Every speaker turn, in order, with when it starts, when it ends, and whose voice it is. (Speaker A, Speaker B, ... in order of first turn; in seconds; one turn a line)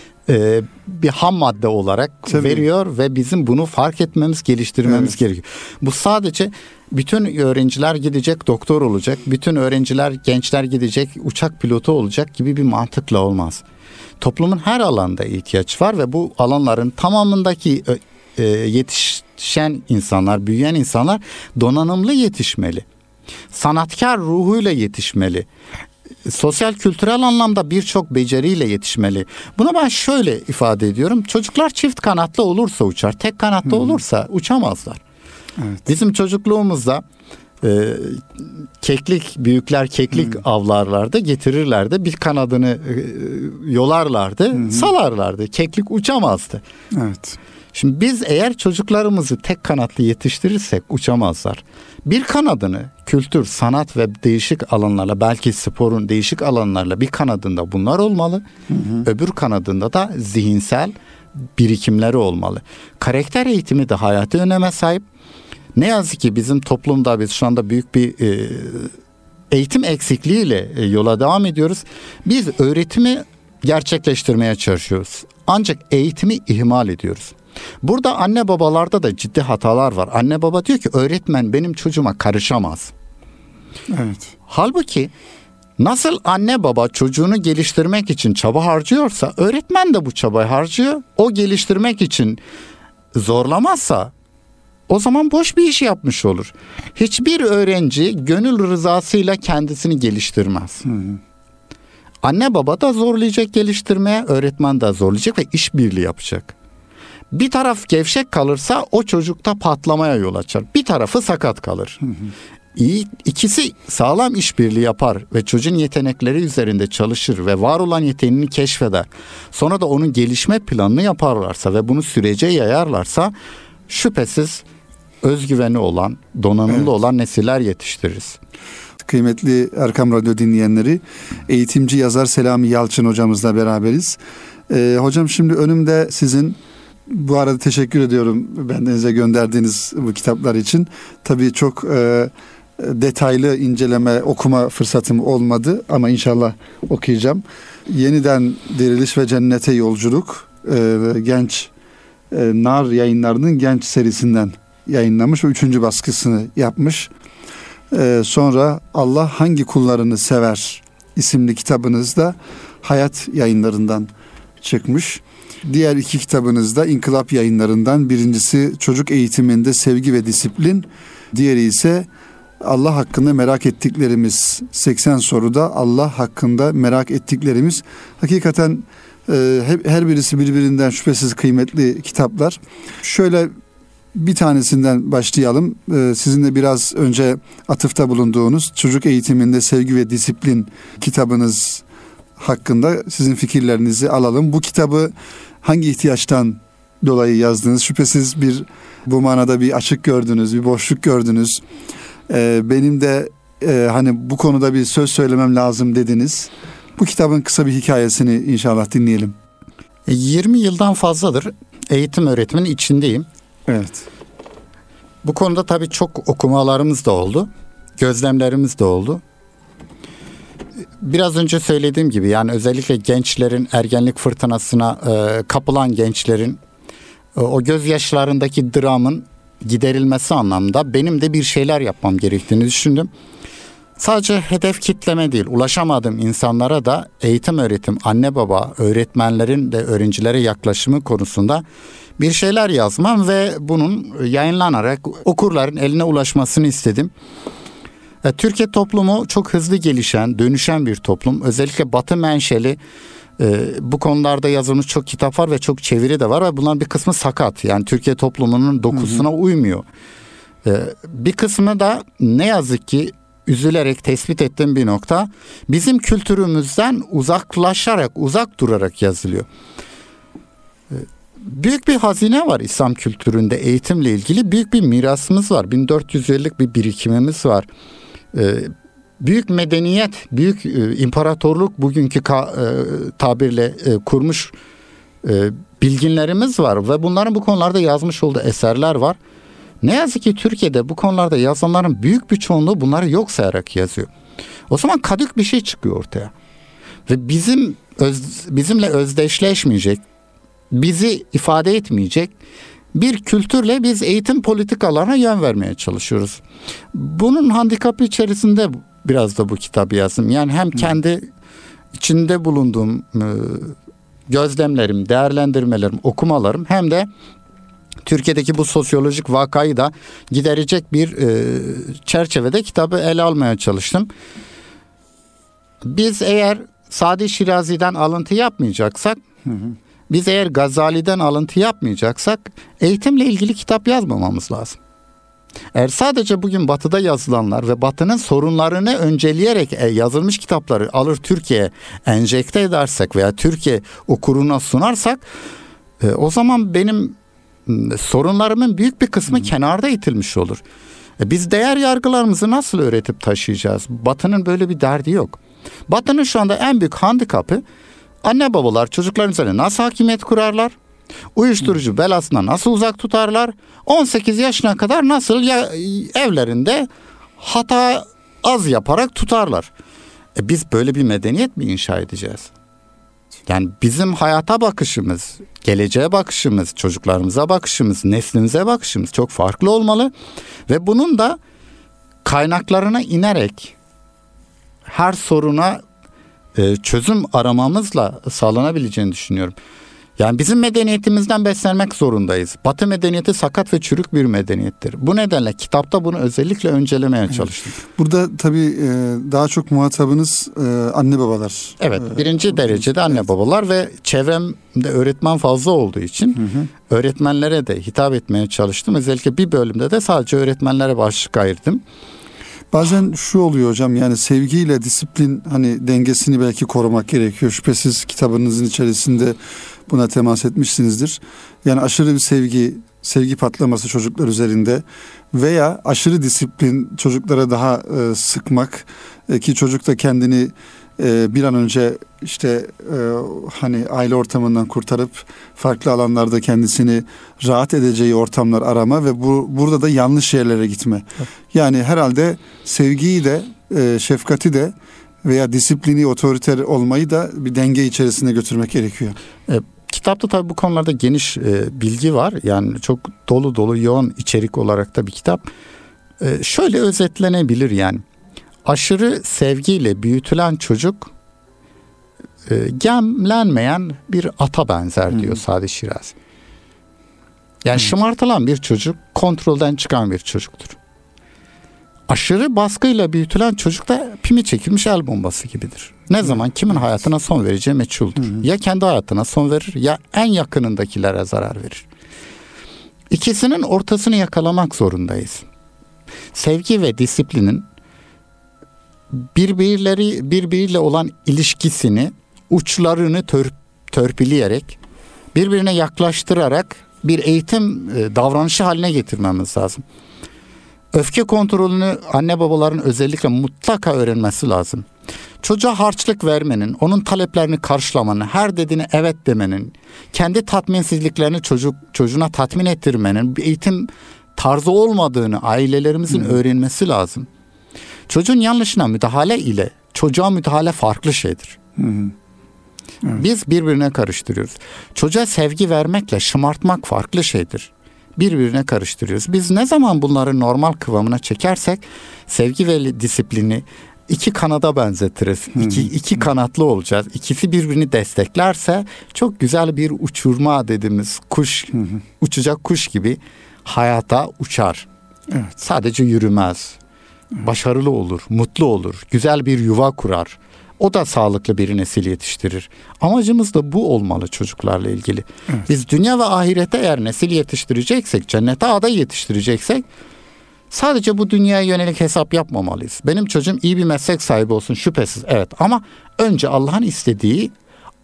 Speaker A: 0.3-13.6
Speaker B: 2.3-2.6
Speaker B: 4.9-5.1
Speaker A: 14.2-22.8
Speaker A: 23.5-25.5
Speaker A: 26.2-35.0
Speaker B: 35.6-35.8
Speaker A: 35.9-37.0
Speaker A: 37.6-46.6
Speaker B: 44.5-44.9
Speaker B: 46.9-47.4
Speaker A: 47.7-58.4
Speaker B: 58.7-59.0
Speaker A: 59.0-60.9
Speaker A: 61.5-65.0
Speaker A: 65.7-68.9
Speaker A: 69.5-82.9
Speaker B: 83.9-84.3
Speaker A: 84.5-85.1
Speaker A: 85.8-92.4
Speaker A: 93.1-94.1
Speaker A: 94.9-100.8
Speaker B: 100.8-101.2
Speaker A: 102.2-106.5
Speaker A: 107.3-112.0
Speaker A: 112.7-123.3
Speaker A: 123.9-124.6
Speaker A: 125.2-128.4
Speaker B: 129.0-134.2
Speaker B: 134.7-151.7
Speaker B: 152.3-157.1
Speaker B: 157.9-164.1
Speaker B: 164.6-172.1
Speaker B: 172.6-183.5
Speaker B: 184.1-191.8
Speaker B: 192.4-201.6
Speaker B: 202.3-209.3
Speaker A: 210.1-213.3
Speaker B: 213.7-214.1
Speaker A: 215.2-219.2
Speaker A: 221.0-226.6
Speaker A: 227.3-233.1
Speaker A: 234.0-241.6
Speaker A: 242.2-247.1
Speaker A: 248.2-252.8
Speaker A: 253.4-259.8
Speaker A: 260.6-269.5
Speaker A: 270.9-277.7
Speaker A: 278.3-284.5
Speaker A: 285.2-289.2
Speaker A: 289.8-294.1
Speaker A: 294.7-296.3
Speaker A: 297.1-300.0
Speaker A: 300.7-302.3
Speaker A: 302.9-306.4
Speaker A: 306.9-311.3
Speaker A: 311.9-313.8
Speaker A: 314.3-317.1
Speaker A: 318.0-324.1
Speaker A: 325.8-329.2
Speaker A: 330.1-334.8
Speaker A: 335.7-345.2
Speaker A: 346.0-350.6
Speaker A: 351.2-357.6
Speaker A: 358.2-360.8
Speaker A: 361.4-369.7
Speaker A: 370.4-372.5
Speaker A: 373.5-380.1
Speaker A: 380.7-381.4
Speaker A: 382.2-383.8
Speaker A: 384.8-385.8
Speaker A: 386.5-389.6
Speaker A: 390.2-397.8
Speaker B: 397.9-402.9
Speaker A: 401.8-411.8
Speaker B: 406.4-406.7
Speaker B: 412.7-419.4
Speaker B: 419.9-449.1
Speaker A: 449.5-455.5
Speaker A: 456.2-458.0
Speaker A: 458.6-461.1
Speaker A: 462.4-466.1
Speaker A: 467.6-470.8
Speaker A: 472.1-481.9
Speaker A: 483.1-485.4
Speaker A: 486.3-487.6
Speaker A: 489.1-494.8
Speaker A: 495.3-499.8
Speaker A: 500.9-504.9
Speaker A: 505.4-517.3
Speaker A: 518.1-521.6
Speaker B: 521.8-522.1
Speaker A: 523.1-544.9
Speaker B: 535.6-535.9
Speaker A: 545.6-546.8
Speaker A: 547.4-559.8
Speaker A: 560.7-567.5